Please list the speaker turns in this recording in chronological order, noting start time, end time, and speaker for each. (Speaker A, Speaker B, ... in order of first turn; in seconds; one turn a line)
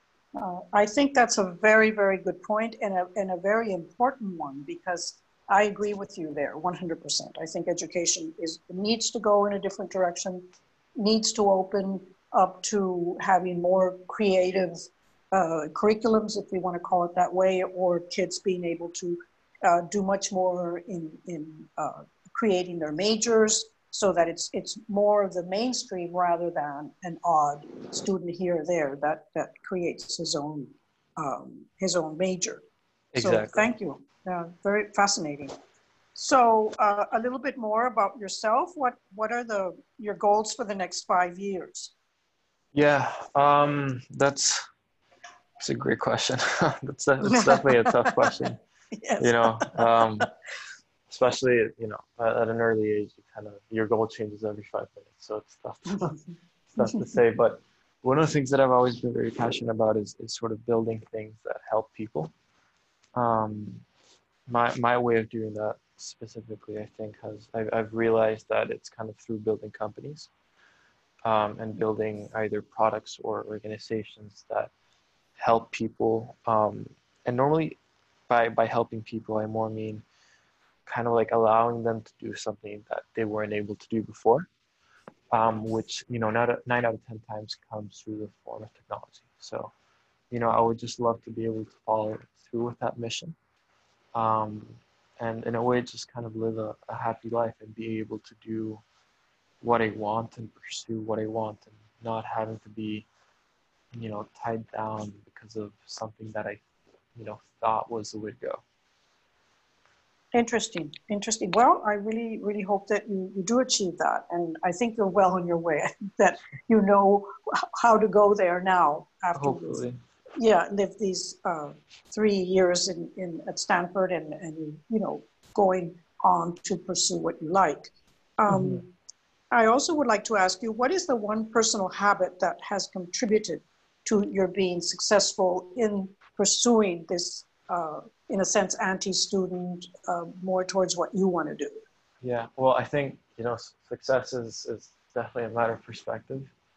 Speaker A: 0.4-32.6
Speaker B: 33.1-33.7
Speaker A: 33.2-35.5
Speaker A: 36.1-41.9
Speaker B: 42.7-44.6
Speaker B: 45.6-48.6
Speaker A: 47.3-48.3
Speaker A: 48.9-50.2
Speaker B: 49.2-50.3
Speaker B: 51.1-56.1
Speaker B: 56.8-62.3
Speaker A: 56.8-57.1
Speaker B: 63.1-63.9
Speaker B: 64.5-70.3
Speaker B: 71.2-74.7
Speaker B: 75.4-77.8
Speaker B: 78.3-80.0
Speaker B: 80.9-84.5
Speaker B: 85.3-89.7
Speaker B: 90.3-93.3
Speaker B: 94.1-98.8
Speaker B: 99.6-103.1
Speaker B: 103.9-106.6
Speaker B: 107.2-108.6
Speaker A: 110.3-119.8
Speaker B: 119.3-120.0
Speaker A: 120.4-128.9
Speaker B: 128.5-128.8
Speaker A: 129.5-141.8
Speaker B: 142.2-146.5